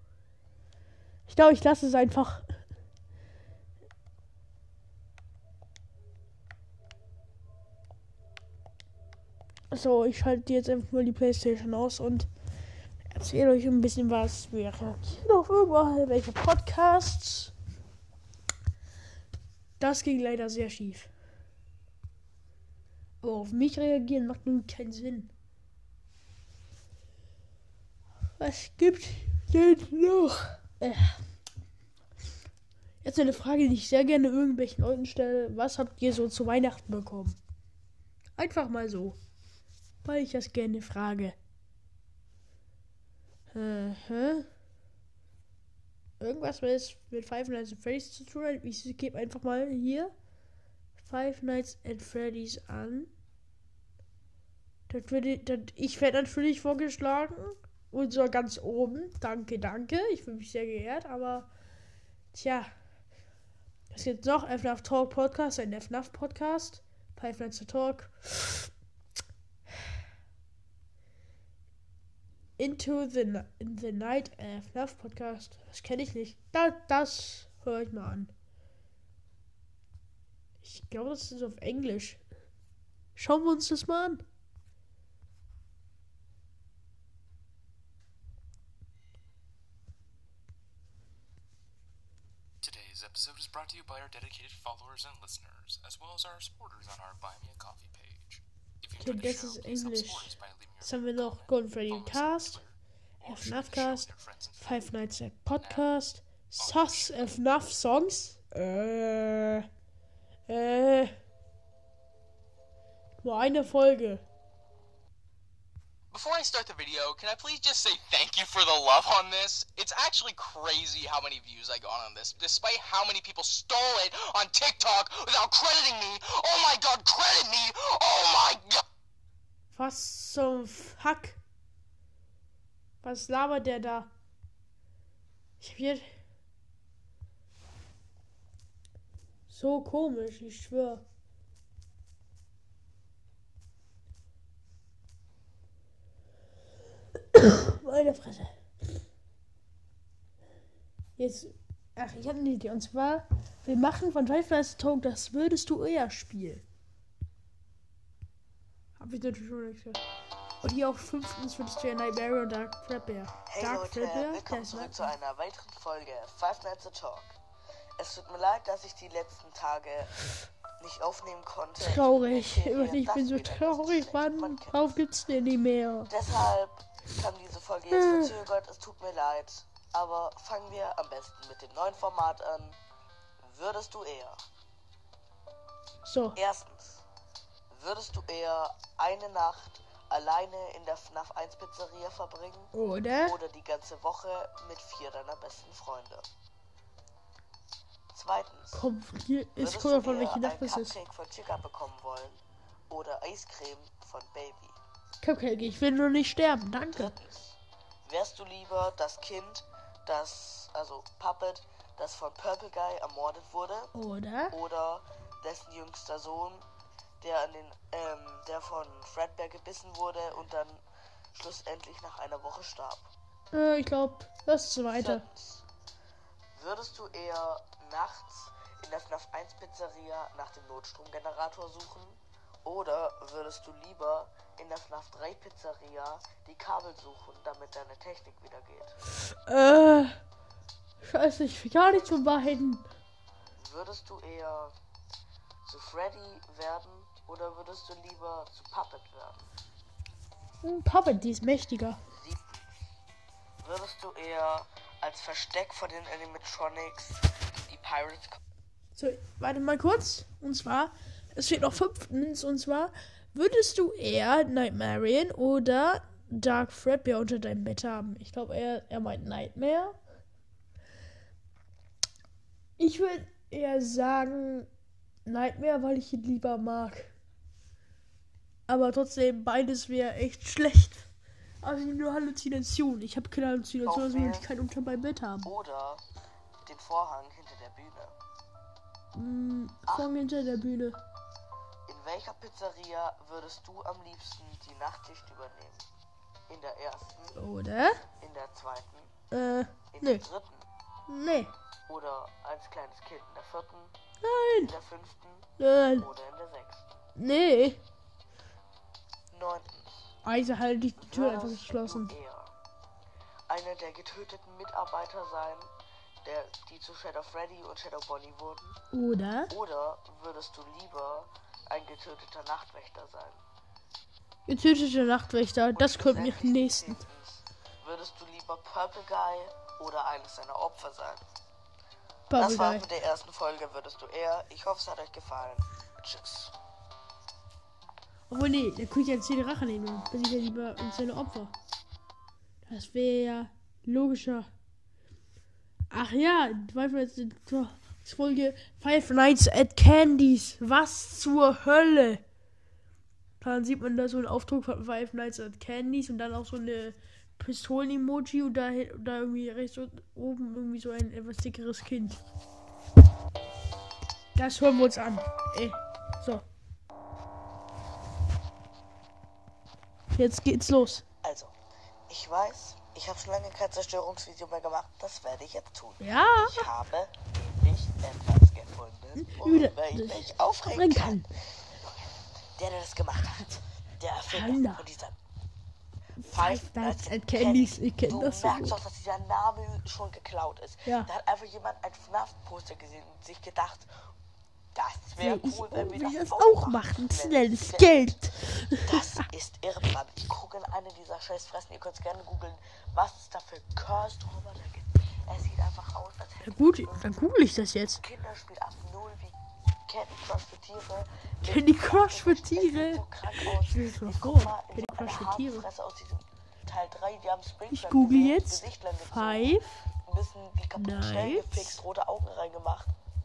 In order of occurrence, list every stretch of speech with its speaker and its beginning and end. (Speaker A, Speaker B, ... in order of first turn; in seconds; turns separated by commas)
Speaker A: 1.3-2.5, Speaker A: 9.7-12.3, Speaker A: 13.1-17.5, Speaker A: 19.8-21.1, Speaker A: 23.2-25.3, Speaker A: 28.4-31.2, Speaker A: 33.0-37.4, Speaker A: 38.4-39.2, Speaker A: 40.0-41.4, Speaker A: 43.5-44.5, Speaker A: 46.2-50.1, Speaker A: 51.0-53.1, Speaker A: 54.9-61.5, Speaker A: 62.3-62.7, Speaker A: 63.9-68.7, Speaker A: 72.6-78.3, Speaker A: 80.6-82.2, Speaker A: 83.2-84.2, Speaker B: 92.6-105.0, Speaker A: 99.0-102.6, Speaker A: 103.2-109.7, Speaker B: 105.6-105.9, Speaker B: 106.6-107.3, Speaker A: 110.5-111.1, Speaker A: 113.2-114.2, Speaker C: 116.1-128.8, Speaker A: 129.7-131.4, Speaker A: 133.0-134.1, Speaker A: 135.6-136.1, Speaker A: 139.5-141.0, Speaker A: 147.3-148.5, Speaker A: 151.2-156.6, Speaker A: 159.0-160.0, Speaker A: 160.6-165.0, Speaker D: 163.5-167.4, Speaker D: 168.0-170.2, Speaker D: 170.8-175.0, Speaker A: 171.8-176.1, Speaker D: 176.1-182.8, Speaker A: 177.9-178.3, Speaker D: 183.4-184.4, Speaker A: 186.1-186.4, Speaker D: 186.3-187.0, Speaker D: 187.7-196.3, Speaker A: 192.7-193.4, Speaker D: 198.1-198.8, Speaker A: 198.7-200.9, Speaker D: 199.6-204.8, Speaker A: 205.2-207.1, Speaker D: 206.9-213.9, Speaker A: 213.9-214.6, Speaker D: 214.5-216.7, Speaker D: 217.2-223.1, Speaker A: 223.5-225.2, Speaker D: 224.9-225.7, Speaker D: 226.6-238.9, Speaker A: 239.5-240.2, Speaker A: 241.0-242.8, Speaker D: 241.9-242.2, Speaker D: 243.6-244.8, Speaker D: 245.6-249.5, Speaker A: 250.6-252.0, Speaker D: 252.1-252.9, Speaker D: 253.6-258.4, Speaker A: 259.0-270.0, Speaker A: 272.8-274.7, Speaker A: 275.3-277.1, Speaker A: 278.7-281.1, Speaker A: 281.6-285.5, Speaker D: 283.9-284.5, Speaker D: 285.4-286.0, Speaker D: 286.6-288.2, Speaker A: 289.1-291.0, Speaker D: 289.9-290.1, Speaker D: 291.9-295.9, Speaker D: 296.5-297.4, Speaker A: 297.4-298.0, Speaker D: 298.2-299.1, Speaker A: 299.3-300.2, Speaker D: 299.9-300.7, Speaker A: 301.1-301.5, Speaker D: 301.9-303.9, Speaker A: 304.2-304.7, Speaker D: 304.6-306.9, Speaker A: 305.6-306.1, Speaker A: 307.2-307.8, Speaker D: 309.3-310.1, Speaker A: 310.2-312.1, Speaker D: 311.0-312.5, Speaker D: 313.5-315.7, Speaker D: 316.2-318.8, Speaker A: 318.9-319.5, Speaker D: 319.5-323.4, Speaker A: 324.5-327.0, Speaker D: 325.7-331.3, Speaker A: 332.3-332.9, Speaker D: 332.4-336.5, Speaker A: 338.3-341.5, Speaker A: 342.7-344.5, Speaker A: 345.9-352.2, Speaker A: 353.4-362.2, Speaker A: 364.4-366.4, Speaker A: 370.1-371.1, Speaker D: 371.2-371.5, Speaker D: 372.1-385.2, Speaker A: 376.0-376.7, Speaker A: 379.2-381.3, Speaker A: 384.3-384.8, Speaker A: 386.2-388.8, Speaker D: 386.3-394.1, Speaker A: 390.9-391.1, Speaker D: 394.7-398.0, Speaker A: 395.2-399.2, Speaker D: 398.8-407.2, Speaker A: 406.4-408.0, Speaker D: 408.0-422.9, Speaker A: 411.5-415.6, Speaker A: 417.7-419.8, Speaker A: 420.8-421.8